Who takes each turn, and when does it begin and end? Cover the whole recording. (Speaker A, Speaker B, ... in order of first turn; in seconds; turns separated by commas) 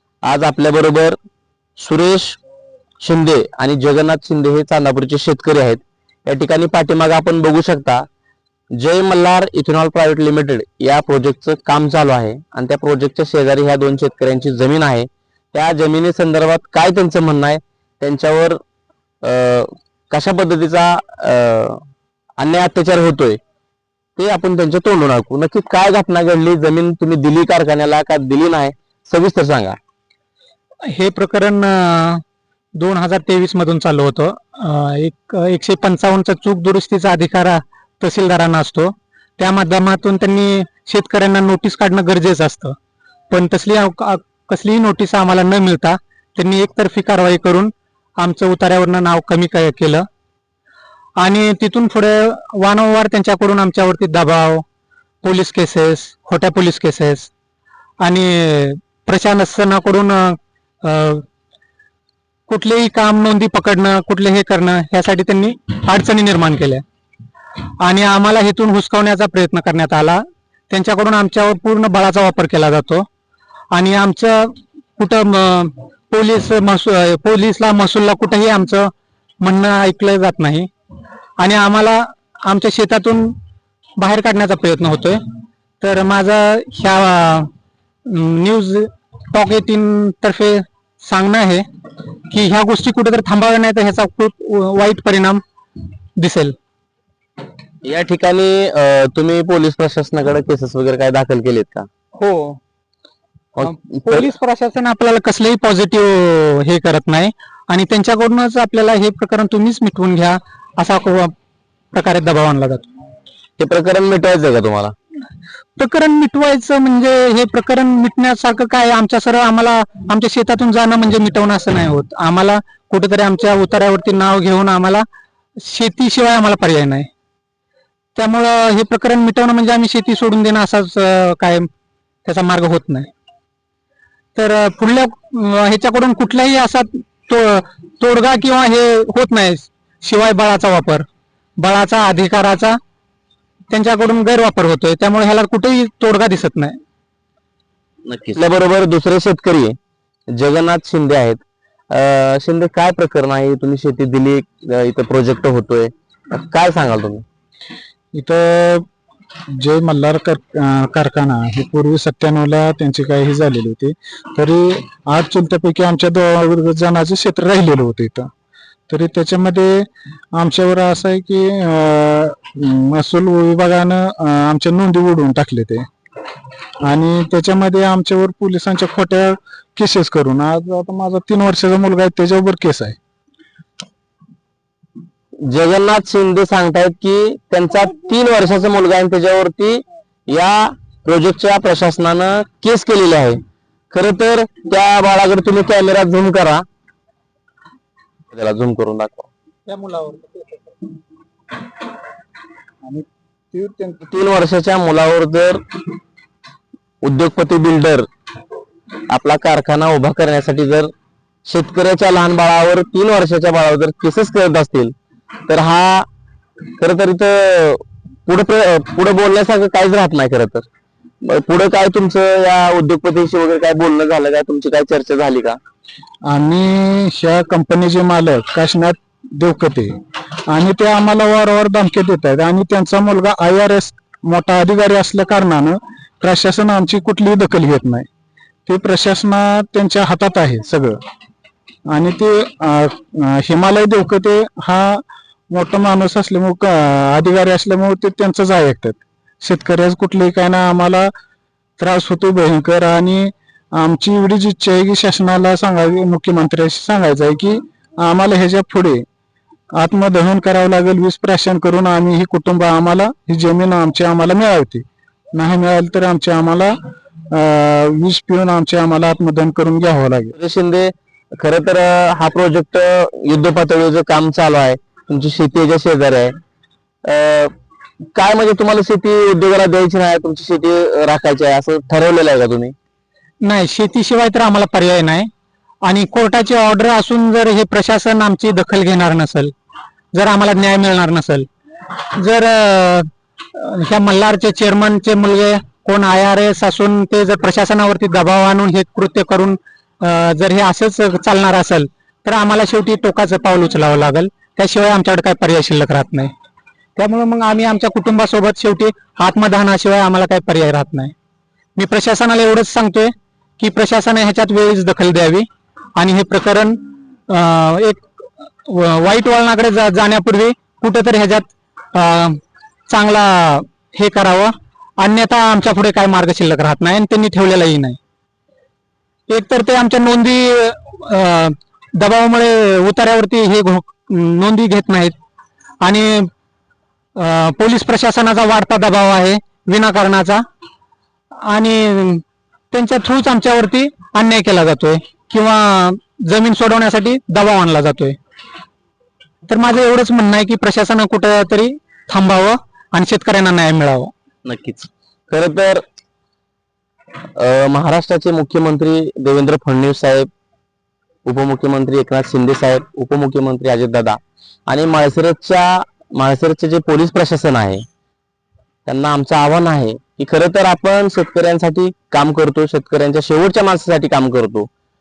Speaker A: 0.2-1.2, Speaker A: 1.8-2.4, Speaker A: 3.0-8.1, Speaker A: 8.8-18.6, Speaker A: 19.2-21.8, Speaker A: 22.4-23.4, Speaker A: 24.2-29.8, Speaker B: 30.9-32.2, Speaker B: 32.7-42.8, Speaker B: 43.3-50.0, Speaker B: 51.2-54.6, Speaker B: 55.2-57.3, Speaker B: 58.0-61.2, Speaker B: 62.5-66.8, Speaker B: 67.8-73.1, Speaker B: 73.7-80.7, Speaker B: 81.4-83.3, Speaker B: 84.0-85.2, Speaker B: 85.8-87.5, Speaker B: 88.0-91.6, Speaker B: 92.3-95.4, Speaker B: 96.2-96.5, Speaker A: 97.8-101.9, Speaker B: 102.1-102.6, Speaker A: 103.5-104.3, Speaker B: 103.6-111.3, Speaker B: 111.9-112.9, Speaker A: 113.6-114.9, Speaker B: 115.8-125.0, Speaker B: 125.6-127.1, Speaker B: 128.2-131.7, Speaker B: 132.2-133.1, Speaker B: 134.3-141.1, Speaker B: 141.6-142.8, Speaker B: 143.7-146.8, Speaker A: 148.0-149.8, Speaker A: 150.3-157.2, Speaker C: 158.1-158.8, Speaker C: 159.6-168.3, Speaker C: 168.9-175.8, Speaker C: 176.8-182.9, Speaker A: 185.4-193.4, Speaker A: 193.9-196.6, Speaker A: 198.3-199.3, Speaker B: 199.7-200.9, Speaker C: 202.8-204.0, Speaker A: 204.0-205.6, Speaker A: 207.0-208.1, Speaker A: 209.1-210.9, Speaker A: 211.4-214.9, Speaker A: 215.5-216.1, Speaker A: 216.8-220.7, Speaker A: 221.2-225.6, Speaker C: 226.3-229.9, Speaker C: 230.5-238.1, Speaker C: 238.7-241.0, Speaker C: 241.9-251.1, Speaker C: 251.8-259.0, Speaker C: 259.8-264.8, Speaker C: 265.3-266.8, Speaker C: 267.3-270.3, Speaker A: 270.4-276.3, Speaker A: 277.0-277.5, Speaker A: 278.1-282.7, Speaker B: 283.4-285.3, Speaker B: 285.8-289.5, Speaker B: 290.1-291.5, Speaker B: 292.2-306.3, Speaker B: 306.9-311.1, Speaker B: 311.8-318.0, Speaker B: 318.6-328.0, Speaker B: 329.3-335.1, Speaker B: 335.8-336.3, Speaker B: 337.1-340.4, Speaker B: 341.4-348.2, Speaker B: 349.5-354.1, Speaker A: 354.4-355.8, Speaker A: 357.4-360.3, Speaker A: 361.2-367.8, Speaker A: 368.9-374.7